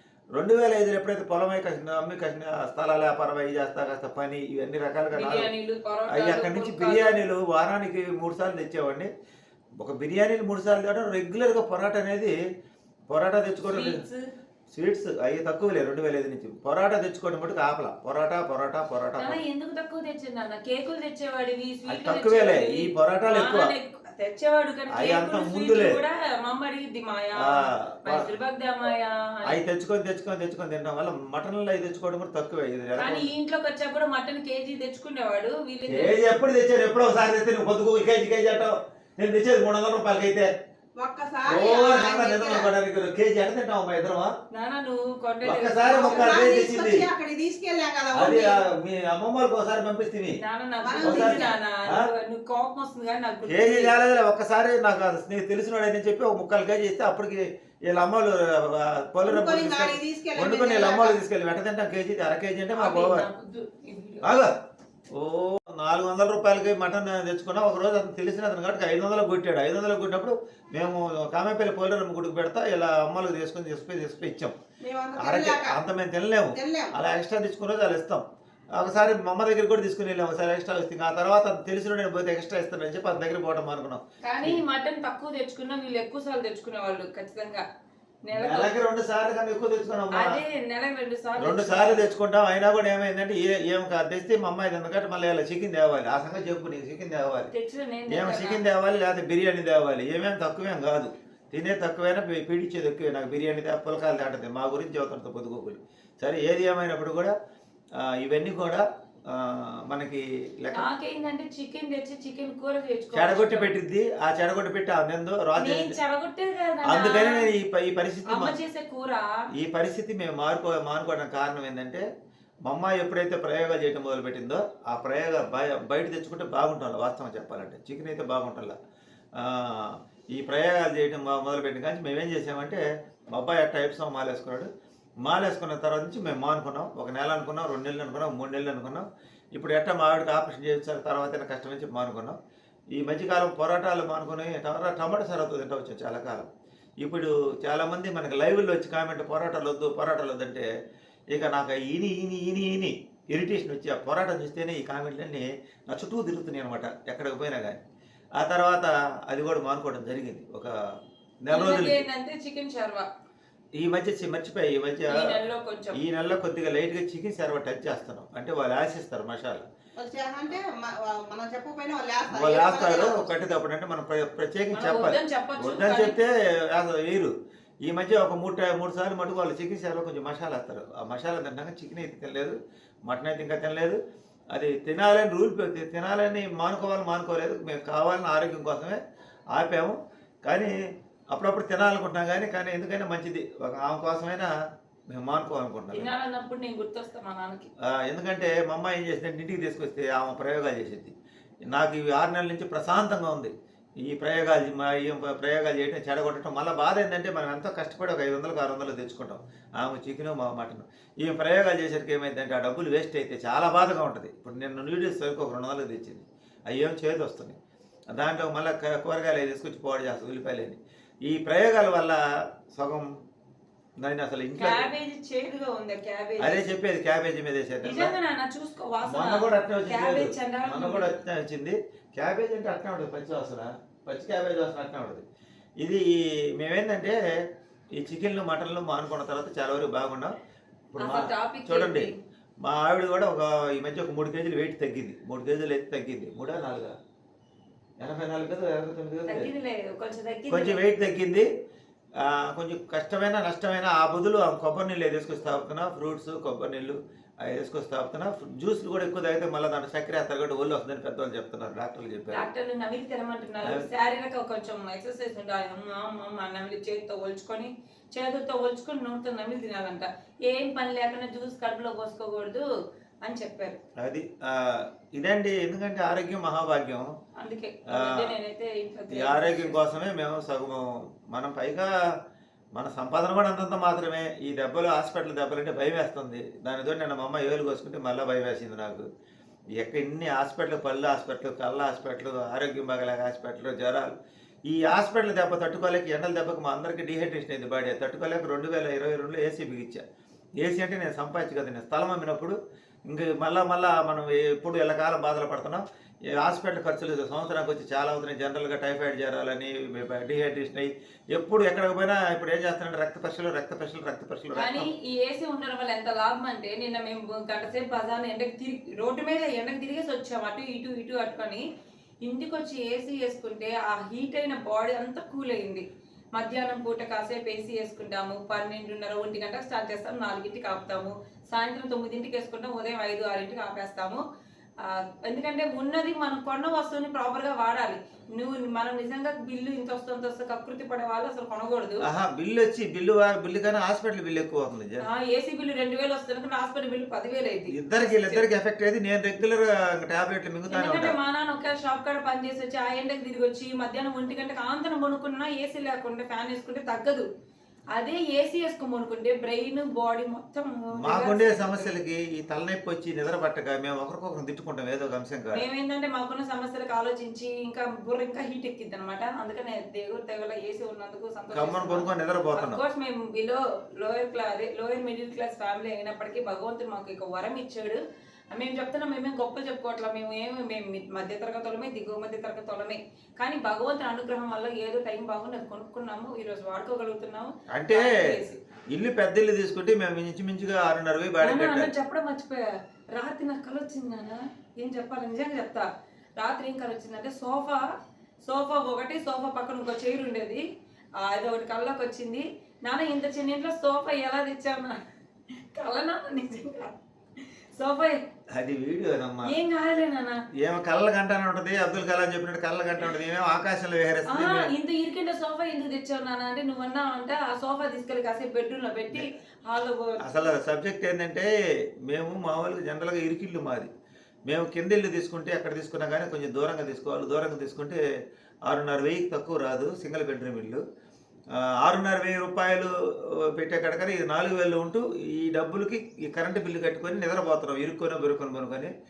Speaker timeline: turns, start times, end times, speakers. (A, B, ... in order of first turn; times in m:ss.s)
0:00.4-0:05.5 A
0:05.1-0:07.2 B
0:06.1-0:09.1 A
0:09.8-0:12.4 A
0:13.1-0:14.0 A
0:13.7-0:14.2 B
0:14.7-0:19.4 A
0:19.2-0:29.6 B
0:21.9-0:23.7 A
0:24.9-0:26.0 A
0:27.4-0:28.3 A
0:29.4-0:33.3 A
0:33.0-0:36.2 B
0:35.9-0:40.5 A
0:41.0-0:42.7 C
0:41.4-0:44.3 A
0:44.5-0:46.4 B
0:45.4-0:47.1 A
0:46.0-0:48.6 C
0:48.1-0:50.4 A
0:50.4-0:54.0 B
0:50.8-0:51.6 C
0:51.0-0:52.1 A
0:53.5-1:03.3 A
0:59.2-1:01.2 C
1:02.7-1:04.3 B
1:04.2-1:04.5 A
1:05.1-1:14.5 A
1:14.8-1:15.8 C
1:15.2-1:18.2 A
1:16.5-1:16.9 C
1:18.8-1:24.6 A
1:24.2-1:27.6 B
1:28.2-1:28.8 B
1:28.3-1:30.3 A
1:30.1-1:32.1 B
1:31.4-1:37.5 A
1:37.5-1:38.6 B
1:38.1-1:47.3 A
1:48.0-1:50.8 A
1:50.7-1:53.7 B
1:53.1-1:55.9 A
1:55.6-1:57.5 B
1:56.8-1:58.6 A
1:58.2-1:59.3 B
1:59.5-2:02.0 A
2:02.6-2:08.8 A
2:09.3-2:14.7 A
2:15.2-2:22.4 A
2:22.9-2:26.5 A
2:27.0-2:30.7 A
2:31.3-2:37.8 A
2:38.4-2:40.7 A
2:41.4-2:42.0 A
2:41.5-2:43.1 B
2:43.8-2:45.4 A
2:45.1-2:46.0 B
2:45.9-2:49.6 A
2:50.0-2:53.3 C
2:52.3-2:57.3 A
2:54.7-2:56.2 B
2:57.8-3:04.0 A
3:04.5-3:09.0 A
3:09.5-3:10.7 A
3:11.3-3:14.5 A
3:15.1-3:16.1 A
3:15.9-3:17.7 B
3:17.8-3:21.1 A
3:21.7-3:37.6 A
3:38.1-3:43.1 A
3:44.0-3:44.9 A
3:44.6-3:46.6 B
3:46.4-3:48.1 A
3:47.8-3:51.1 B
3:49.0-3:55.2 A
3:55.8-3:57.2 A
3:57.9-4:00.4 A
4:00.9-4:02.1 A
4:01.0-4:02.1 B
4:02.6-4:07.0 A
4:08.0-4:09.5 A
4:09.3-4:10.8 B
4:10.5-4:11.5 A
4:12.2-4:22.5 A
4:22.3-4:32.6 B
4:33.2-4:33.8 B
4:34.0-4:37.1 A
4:37.4-4:39.8 B
4:37.9-4:38.3 A
4:39.1-4:41.9 A
4:42.8-4:49.0 A
4:49.8-4:54.1 A
4:54.7-5:00.0 A
5:00.6-5:14.9 A
5:14.5-5:21.6 B
5:22.2-5:34.2 B
5:34.8-5:42.0 B
5:42.0-5:45.1 A
5:45.0-5:48.4 B
5:47.7-5:51.2 A
5:50.7-5:57.2 B
5:57.9-6:02.0 B
6:01.0-6:05.6 A
6:05.5-6:18.0 B
6:11.5-6:12.8 A
6:18.5-6:28.6 B
6:27.7-6:28.3 A
6:28.9-6:31.9 A
6:31.4-6:35.8 B
6:36.4-6:37.8 B
6:38.4-6:40.6 B
6:41.2-6:45.0 B
6:45.7-6:48.2 B
6:48.5-6:49.6 A
6:49.4-6:50.4 B
6:50.6-6:54.7 A
6:54.3-7:00.2 B
7:00.2-7:01.5 A
7:02.0-7:03.9 A
7:04.4-7:08.0 A
7:08.6-7:10.8 A
7:11.5-7:18.9 A